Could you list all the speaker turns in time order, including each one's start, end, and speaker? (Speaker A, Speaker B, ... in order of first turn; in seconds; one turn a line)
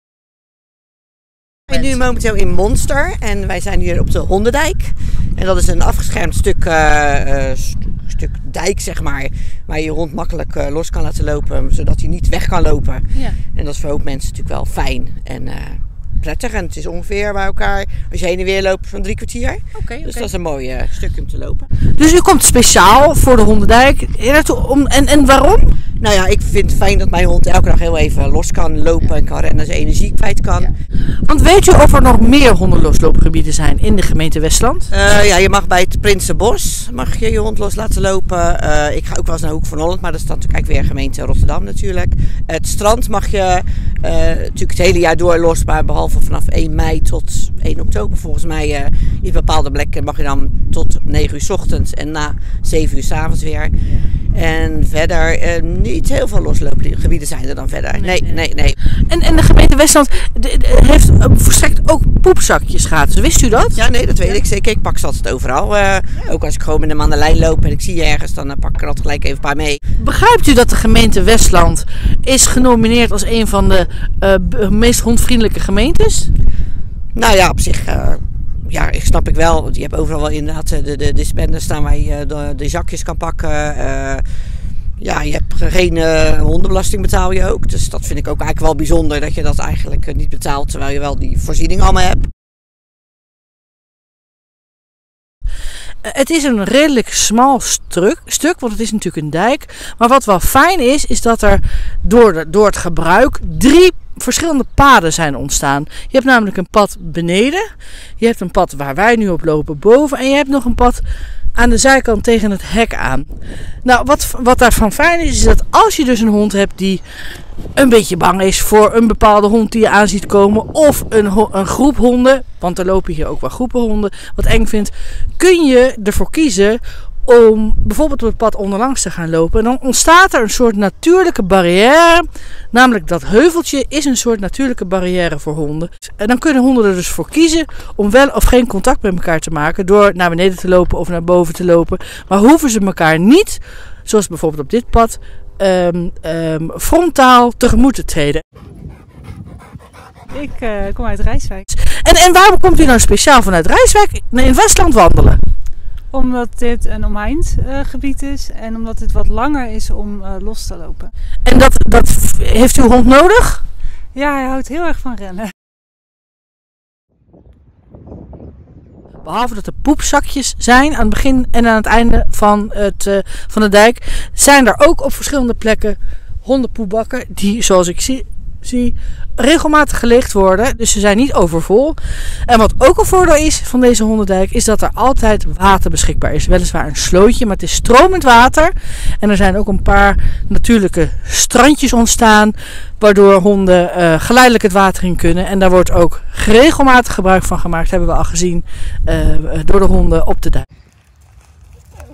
Speaker A: 1.7-21.7
Speaker B: 19.7-20.3
Speaker B: 22.0-25.8
Speaker A: 26.0-30.7
Speaker B: 31.2-34.9
Speaker A: 34.9-53.7
Speaker A: 54.3-58.8
Speaker B: 58.0-58.4
Speaker B: 59.1-64.3
Speaker A: 63.7-69.8
Speaker B: 70.0-76.3
Speaker A: 77.1-84.2
Speaker A: 85.0-92.3
Speaker B: 96.0-107.7
Speaker B: 108.2-111.0
Speaker B: 111.5-113.3
Speaker B: 113.8-117.0
Speaker B: 117.8-148.4
Speaker C: 150.3-151.7
Speaker B: 151.7-155.4
Speaker C: 156.1-161.1
Speaker B: 161.4-163.6
Speaker C: 164.1-165.5
Speaker B: 169.2-200.7